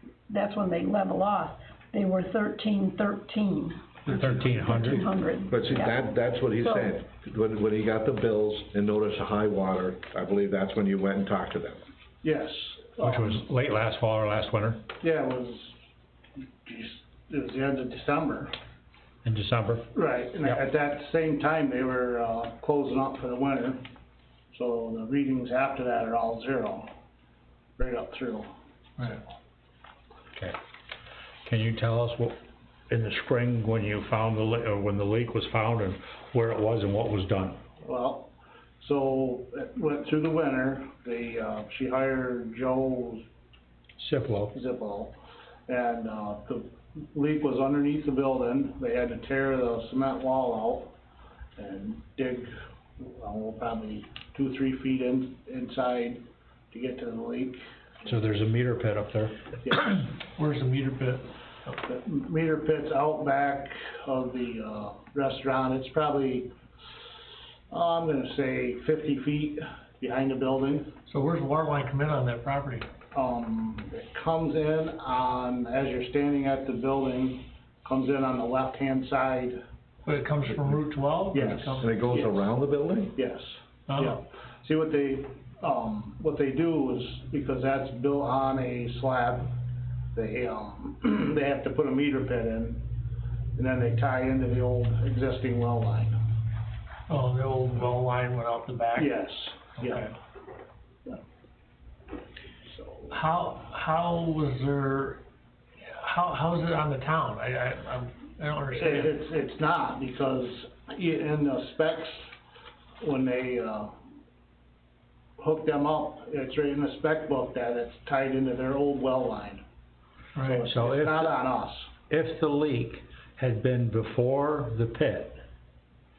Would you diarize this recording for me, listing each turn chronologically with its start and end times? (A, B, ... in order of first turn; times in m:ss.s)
0:00.3-0:06.9 A
0:04.1-0:05.0 B
0:05.5-0:11.8 C
0:12.2-0:13.5 D
0:13.0-0:14.8 B
0:15.0-0:15.8 D
0:16.6-0:18.5 D
0:19.2-0:19.9 B
0:19.9-0:23.8 D
0:24.5-0:26.9 D
0:27.8-0:29.2 D
0:31.4-0:32.4 B
0:32.9-0:37.6 B
0:37.8-0:38.3 D
0:38.8-0:43.2 D
0:44.0-0:44.5 B
0:44.5-0:45.1 D
0:45.7-0:50.9 D
0:51.6-0:57.6 D
0:58.0-0:59.4 B
0:59.6-1:00.1 D
1:00.3-1:01.3 E
1:01.8-1:06.5 D
1:07.7-1:10.9 D
1:11.1-1:12.9 E
1:13.1-1:19.6 D
1:20.1-1:21.7 E
1:21.3-1:22.4 D
1:21.8-1:23.2 C
1:23.2-1:29.5 D
1:23.9-1:24.2 E
1:30.1-1:32.8 D
1:33.6-1:36.2 D
1:37.1-1:39.1 E
1:39.0-1:40.1 D
1:39.8-1:40.1 E
1:42.7-1:43.1 D
1:43.1-1:45.2 E
1:45.8-1:49.2 E
1:48.8-1:52.2 D
1:53.0-1:53.9 D
1:55.4-1:59.6 D
2:00.4-2:00.7 E
2:00.4-2:01.9 D
2:00.7-2:01.3 B
2:02.1-2:05.4 B